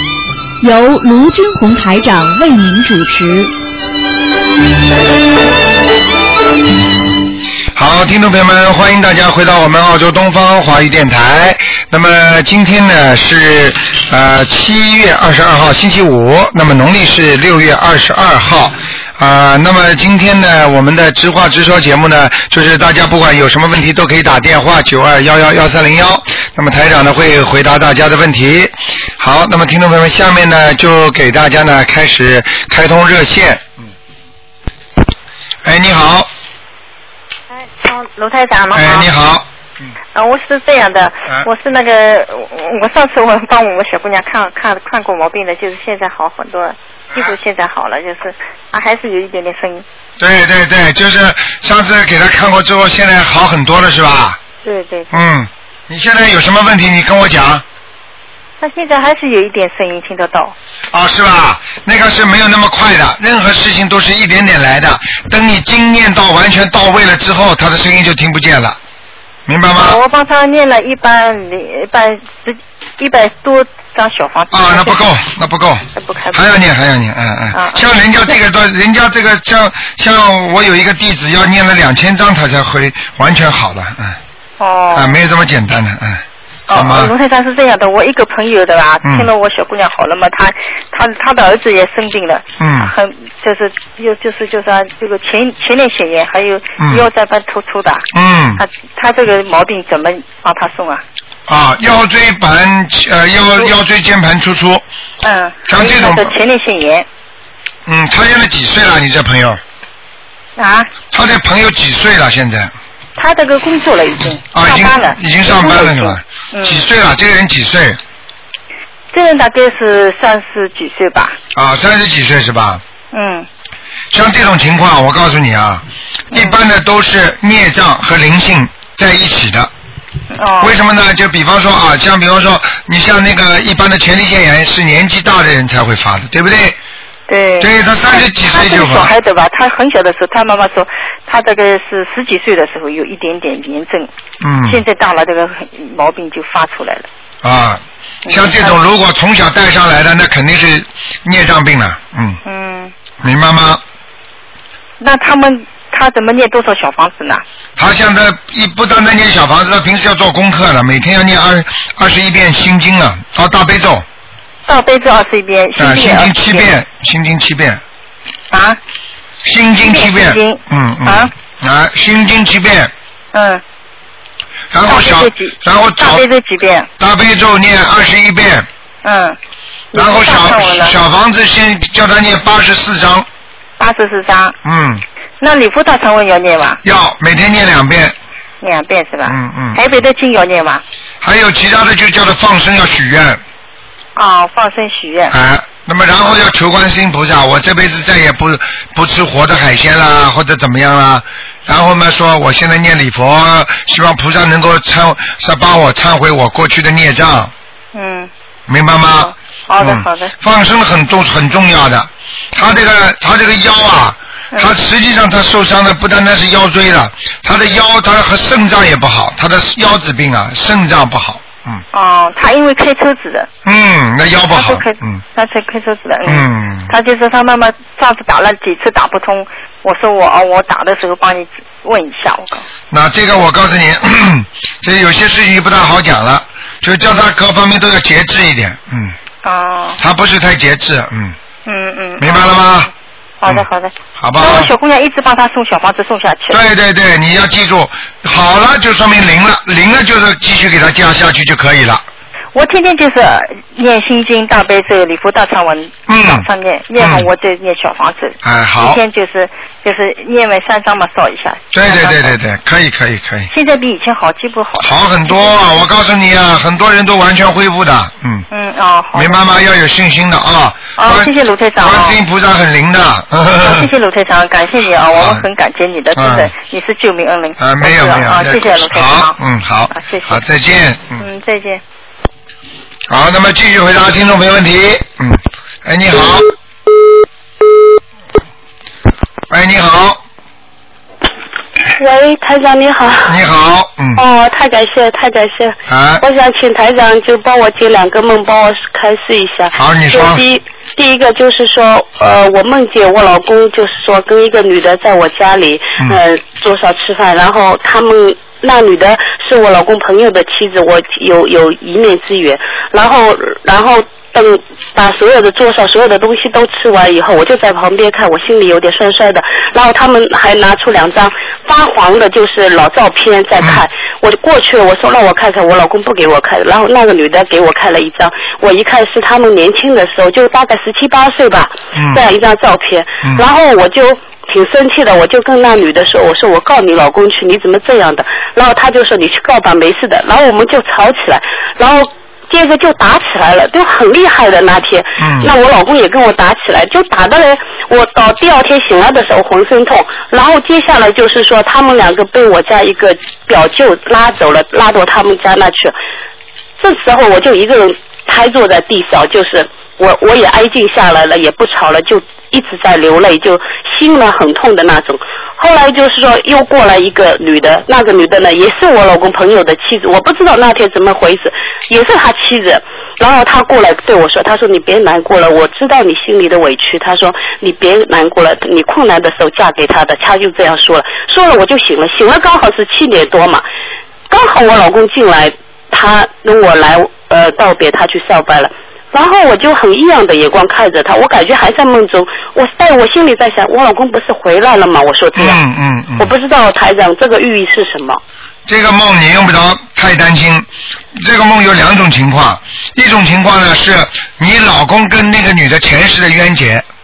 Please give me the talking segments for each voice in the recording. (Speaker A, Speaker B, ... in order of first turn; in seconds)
Speaker A: 0.6-3.5
Speaker B: 7.7-33.7, 35.6-36.3, 38.7-39.5, 50.2-54.4, 55.1-57.6, 60.9-68.8, 69.5-70.0, 74.5-84.2, 84.9-87.1, 92.6-92.9, 96.8-97.1, 98.1-98.6, 101.5-104.8, 105.7-106.3, 107.8-109.6, 111.1-112.7, 114.5-118.0, 121.5-122.8, 124.1-129.7, 130.6-136.8, 137.6-139.1, 144.4-144.8, 147.4-152.4, 153.2-153.8, 157.8-164.0, 165.8-167.8, 169.4-172.9, 174.7-176.2, 177.0-178.7, 179.9-183.3, 184.6-185.0, 186.8-188.1, 189.3-189.8, 191.2-193.4, 195.3-207.5, 208.7-221.8, 223.6-225.2, 226.2-226.9, 232.9-239.2, 240.0-241.3, 242.2-242.9, 244.2-244.7, 246.5-252.0, 256.1-256.4, 257.0-257.3, 258.4-259.0, 261.7-263.5, 264.8-268.4, 269.1-273.9, 275.1-275.4, 276.1-276.5, 277.6-281.2, 283.1-286.5, 289.5-290.2, 293.2-294.2, 295.9-296.2, 299.7-300.4, 331.9-332.2, 345.2-345.5, 395.4-396.3, 398.7-406.8
Speaker C: 37.6-39.1, 40.1-49.8, 54.6-55.2, 58.6-60.5, 69.8-75.2, 75.9-76.5, 77.5-77.8, 84.6-85.2, 86.7-101.0, 105.2-107.1, 110.6-110.9, 113.2-116.9, 119.1-121.4, 123.1-123.5, 126.3-126.6, 130.3-130.8, 137.3-144.1, 144.6-147.1, 148.2-148.8, 152.4-152.9, 155.0-157.4, 164.7-166.7, 168.5-168.8, 169.8-171.3, 173.3-173.6, 174.8-176.9, 179.0-179.4, 179.9-180.9, 183.8-184.5, 185.4-186.8, 188.6-190.8, 194.1-195.3, 207.9-208.3, 209.1-210.3, 221.9-223.5, 224.5-232.7, 239.4-240.0, 241.7-242.9, 243.4-246.6, 252.5-262.4, 263.5-265.7, 268.5-269.5, 271.0-272.2, 273.6-279.4, 279.9-280.4, 281.2-281.8
Speaker D: 291.8-293.4, 294.1-355.9, 356.8-383.6, 384.3-395.6, 396.2-398.2